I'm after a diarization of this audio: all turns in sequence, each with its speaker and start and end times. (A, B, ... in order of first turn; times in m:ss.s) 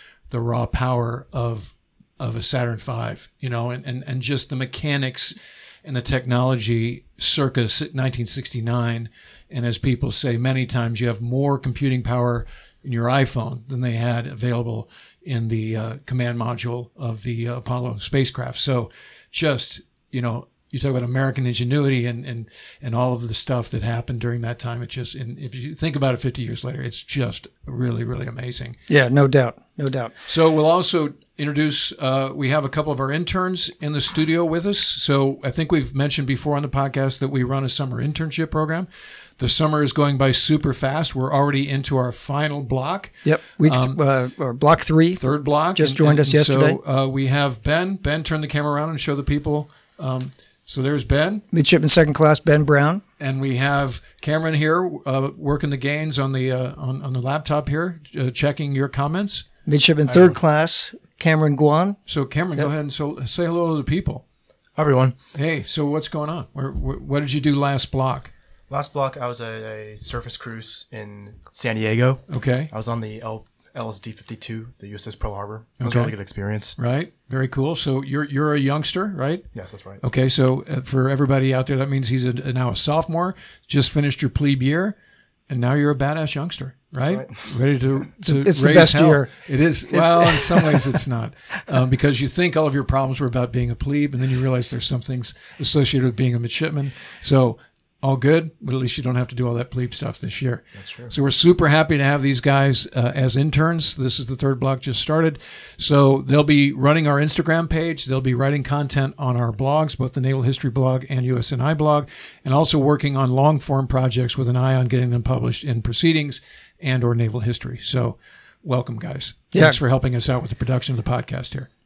0:00.3-0:28.8 A
0:28.9-0:30.1 B
0:30.3-0:44.0 A
0:43.2-0:46.8 B
0:45.2-0:51.4 A
0:51.5-0:53.0 B
0:53.2-0:59.4 A
0:59.6-1:02.0 B
1:02.1-1:04.2 A
1:04.7-1:05.2 C
1:05.3-1:08.3 A
1:08.7-1:16.8 C
1:12.3-1:12.7 A
1:15.8-1:24.9 A
1:19.5-1:20.0 C
1:25.5-2:01.7 A
1:27.1-1:27.4 C
1:28.2-1:29.3 B
1:29.9-1:30.9 B
1:40.7-1:41.1 C